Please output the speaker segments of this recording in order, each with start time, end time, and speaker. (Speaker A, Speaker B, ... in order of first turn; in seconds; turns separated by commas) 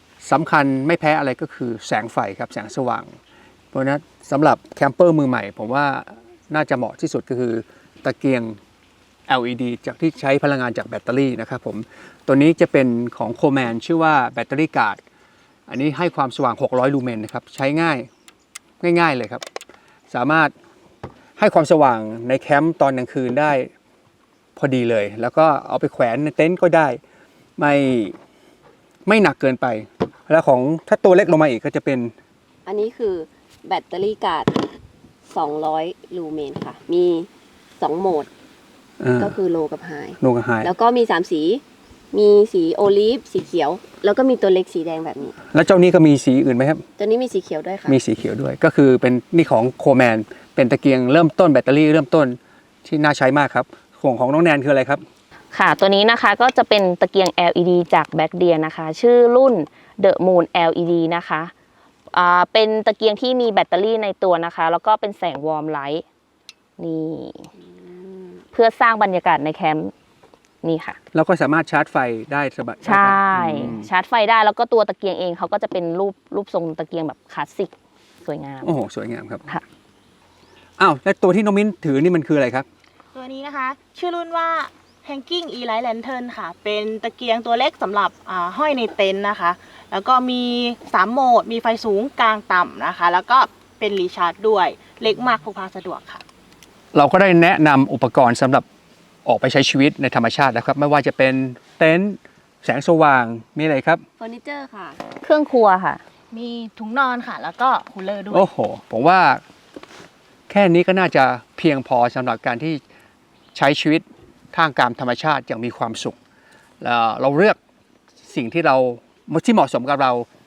Speaker A: 0.2-3.1, Speaker A: 3.7-8.6, Speaker A: 9.3-15.0, Speaker A: 15.7-18.1, Speaker A: 18.8-19.4, Speaker A: 20.1-20.5, Speaker A: 21.4-23.7, Speaker A: 24.6-27.0, Speaker A: 27.6-28.1, Speaker A: 29.1-32.1, Speaker B: 32.6-34.6, Speaker B: 35.3-38.3, Speaker A: 39.0-39.4, Speaker B: 39.2-45.4, Speaker A: 40.2-40.7, Speaker A: 45.5-46.8, Speaker B: 47.0-48.0, Speaker A: 47.9-55.0, Speaker C: 55.5-61.5, Speaker C: 62.1-66.0, Speaker C: 66.8-67.5, Speaker B: 67.8-68.4, Speaker C: 68.5-69.9, Speaker C: 70.6-71.0, Speaker A: 71.1-73.9, Speaker C: 72.8-77.7, Speaker C: 78.2-78.8, Speaker A: 78.6-79.5, Speaker A: 80.8-82.7, Speaker D: 83.1-96.2, Speaker A: 96.9-98.6, Speaker A: 99.2-104.0, Speaker B: 104.2-105.0, Speaker C: 105.2-106.0, Speaker D: 106.3-108.5, Speaker A: 108.3-109.4, Speaker A: 110.5-112.8, Speaker A: 113.5-116.2, Speaker A: 116.8-117.6, Speaker A: 118.2-120.2